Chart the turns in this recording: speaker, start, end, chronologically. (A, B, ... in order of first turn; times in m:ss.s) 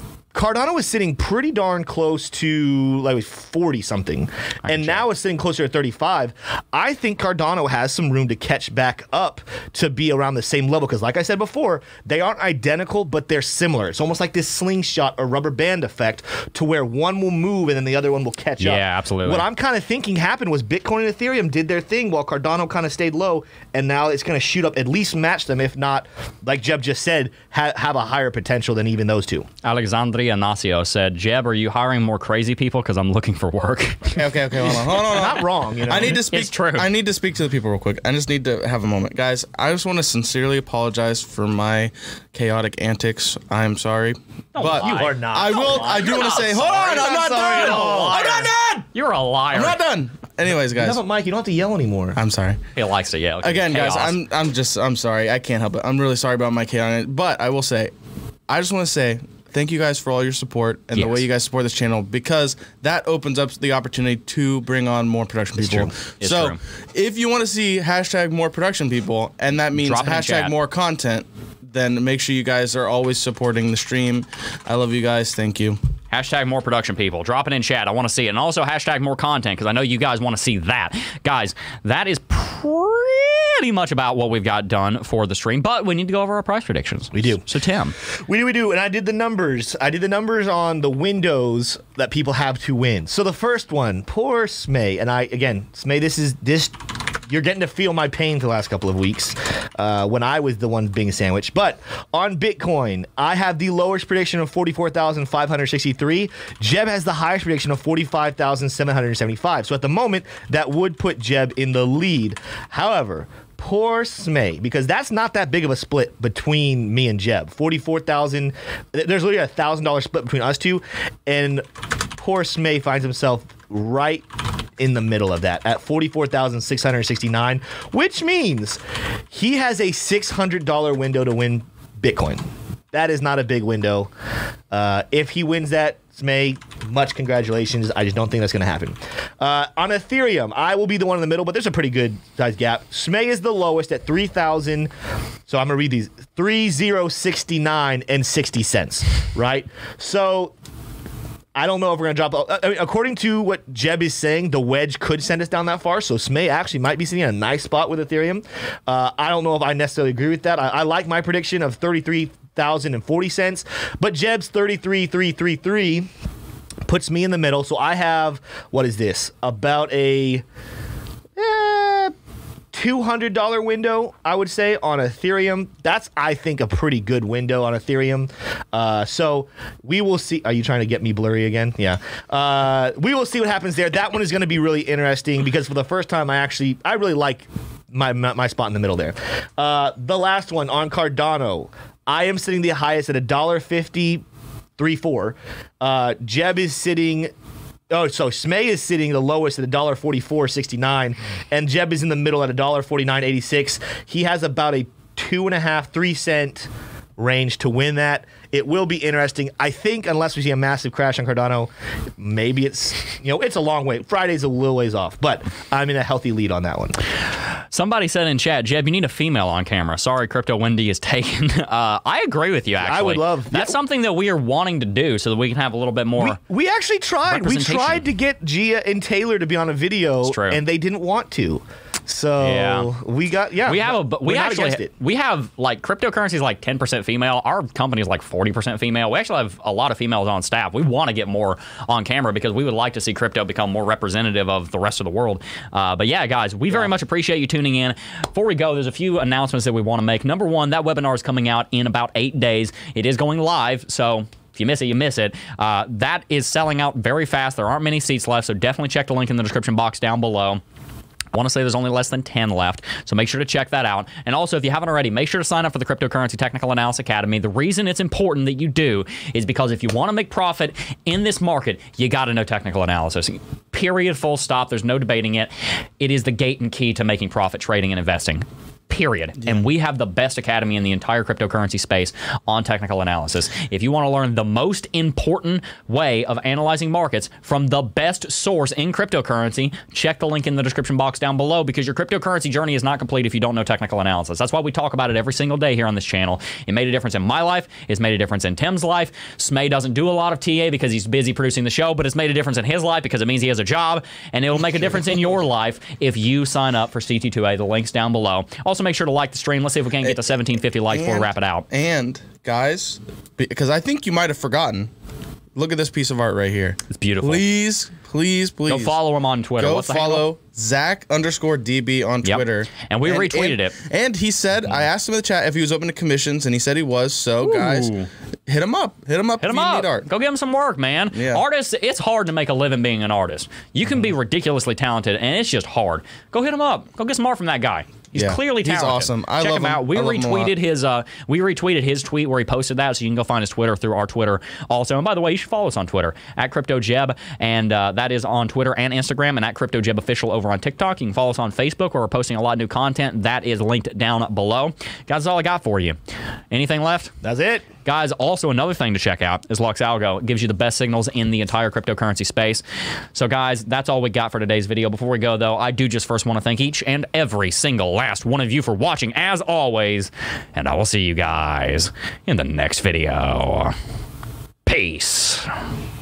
0:00.3-0:29.5 A
0:04.6-0:05.0 B
0:18.6-0:19.5 B
0:29.6-0:34.2 B
0:34.2-0:48.5 C
0:34.9-0:36.2 A
0:36.0-0:36.9 B
0:44.6-0:49.8 B
0:44.8-0:48.6 A
0:49.5-0:51.0 C
0:50.7-0:52.2 A
0:52.2-0:52.6 C
0:52.8-0:54.2 B
0:53.4-0:57.9 C
0:58.5-1:15.8 C
1:01.0-1:01.2 B
1:05.6-1:06.6 B
1:09.8-1:10.5 B
1:16.1-1:28.0 B
1:27.1-1:27.4 A
1:28.0-2:01.6 A
2:02.2-2:04.2 A
2:04.8-2:08.8 A
2:09.3-2:14.1 A
2:14.7-2:24.9 A
2:25.5-2:30.5 A
2:31.6-2:46.1 A
2:46.9-2:50.4 A
2:51.4-2:52.1 A
2:52.7-3:14.2 A
3:14.8-3:17.3 A
3:17.9-3:37.0 A
3:37.7-3:46.4 B
3:42.8-3:43.8 A
3:46.2-3:54.9 A
3:47.3-3:48.1 B
3:50.2-3:50.6 B
3:52.4-3:52.9 B
3:53.7-4:20.6 B
4:21.3-5:11.6 B
5:10.9-5:14.9 C
5:15.6-5:19.0 C
5:16.9-5:17.4 B
5:18.7-5:20.3 B
5:19.6-5:27.9 C
5:22.2-5:23.8 B
5:27.4-5:28.1 B
5:28.5-5:30.1 C
5:29.4-5:56.0 B
5:31.1-5:31.4 C
5:38.2-5:40.5 C
5:56.5-5:57.1 B
5:57.2-5:57.7 A
5:57.8-6:02.6 B
6:03.1-6:13.8 B
6:14.6-6:15.5 B